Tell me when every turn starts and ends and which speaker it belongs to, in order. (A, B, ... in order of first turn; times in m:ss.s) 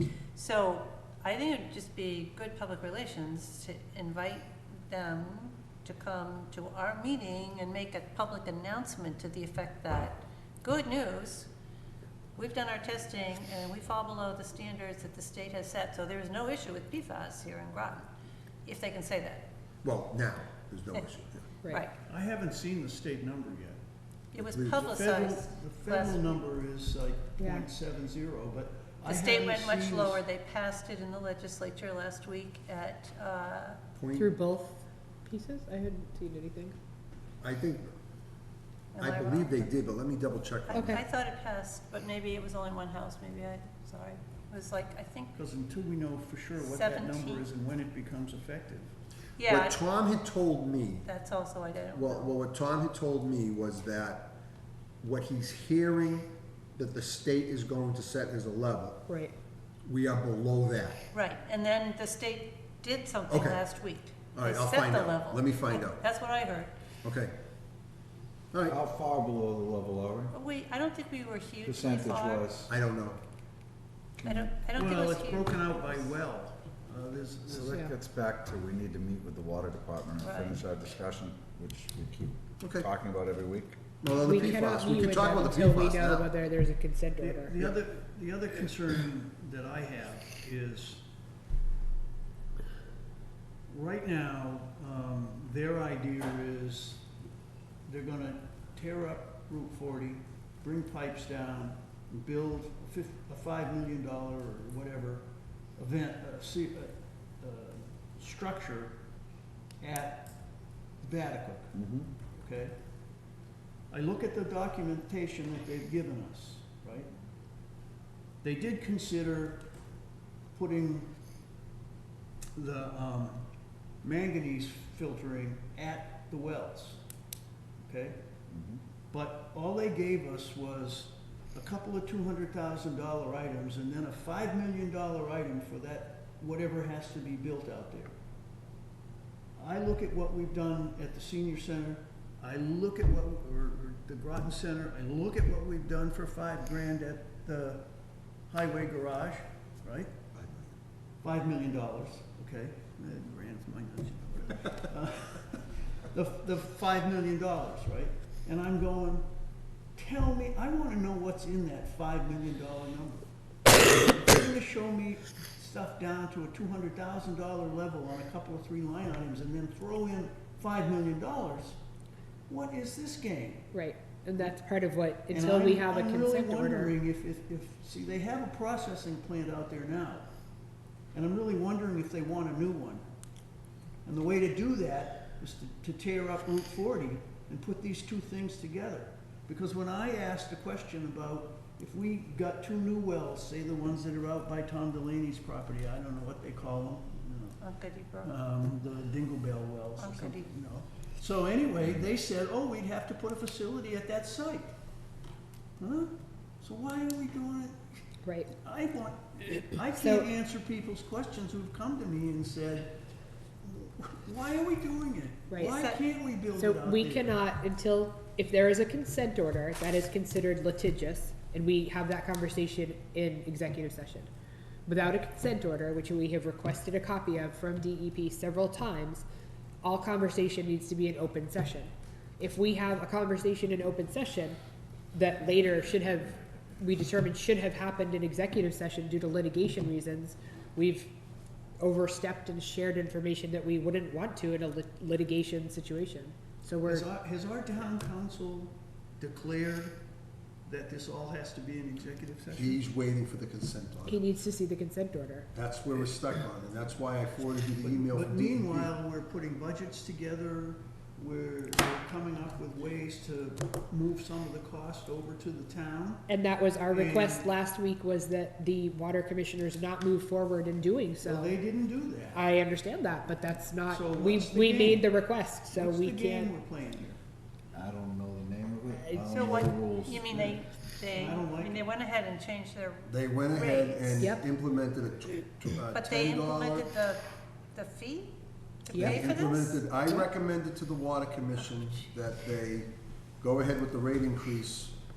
0:00.3-0:11.5 A
0:12.4-0:18.1 A
0:18.6-0:19.4 A
0:19.8-0:21.4 B
0:21.7-0:21.9 A
0:22.1-0:23.8 C
0:24.3-0:26.3 A
0:24.4-0:24.9 B
0:24.9-0:30.2 C
0:27.4-0:27.6 D
0:29.0-0:33.8 A
0:33.9-0:34.3 B
0:34.1-0:36.8 D
0:37.4-0:37.9 B
0:38.9-0:39.7 A
0:39.0-0:41.0 B
0:40.7-0:45.3 A
0:40.7-0:41.0 D
0:45.3-0:48.9 C
0:46.6-0:47.5 A
0:49.4-0:49.8 A
0:49.4-0:51.1 B
0:51.0-0:52.3 A
0:51.9-0:54.4 B
0:55.0-0:59.0 B
0:59.1-0:59.3 D
0:59.8-1:01.0 B
1:01.1-1:06.7 A
1:03.3-1:03.6 B
1:04.3-1:06.0 B
1:07.0-1:07.3 B
1:08.5-1:08.8 B
1:08.6-1:10.3 E
1:10.3-1:12.4 A
1:11.6-1:12.7 E
1:12.7-1:13.2 B
1:14.2-1:14.5 E
1:14.2-1:16.0 A
1:14.8-1:17.7 C
1:17.5-1:23.8 E
1:20.2-1:20.6 A
1:22.6-1:22.9 B
1:24.0-1:26.3 B
1:24.2-1:27.7 D
1:27.2-1:31.0 C
1:33.7-1:37.0 C
1:37.9-1:45.2 C
1:45.8-1:48.9 C
1:49.8-1:50.3 C
1:51.0-1:51.7 C
1:51.7-1:52.1 E
1:52.3-1:52.7 C
1:53.9-1:57.1 C
1:58.4-1:59.6 C
2:00.5-2:01.1 C
2:02.6-2:03.4 C
2:04.0-2:07.0 C
2:07.8-2:08.2 C
2:08.5-2:08.8 E
2:09.1-2:18.1 C
2:19.6-2:27.8 C
2:28.5-2:30.1 C
2:30.3-2:30.7 B
2:31.2-2:39.2 C
2:40.0-2:51.8 C
2:52.5-2:53.7 C
2:53.7-2:56.9 D
2:55.3-3:00.2 C
3:01.1-3:03.0 C
3:04.0-3:17.6 C
3:17.6-3:18.4 A
3:18.2-3:24.7 C
3:20.0-3:20.5 A
3:25.8-3:27.8 C
3:28.2-3:28.5 D
3:28.6-3:32.9 C
3:29.9-3:30.3 D
3:33.6-3:37.4 C
3:35.6-3:36.0 A
3:36.5-3:44.3 D
3:44.8-3:49.2 D
3:49.8-3:54.6 D
3:55.1-4:01.1 D
4:01.8-4:07.0 D
4:06.8-4:10.0 C
4:10.6-4:12.7 C
4:12.5-4:14.2 B
4:14.0-4:15.5 D
4:15.5-4:18.9 B
4:17.8-4:26.2 C
4:26.3-4:31.6 D
4:26.9-4:27.4 C
4:31.2-4:32.4 C
4:32.3-4:36.5 D
4:33.9-4:35.1 C
4:35.7-4:37.2 C
4:37.7-4:40.5 E
4:38.9-4:39.5 D
4:39.3-4:44.3 A
4:41.2-4:41.8 C
4:43.1-4:46.9 B
4:45.9-4:47.2 A
4:47.7-4:48.3 A
4:48.8-4:49.7 A
4:48.9-4:50.2 D
4:48.9-4:55.0 B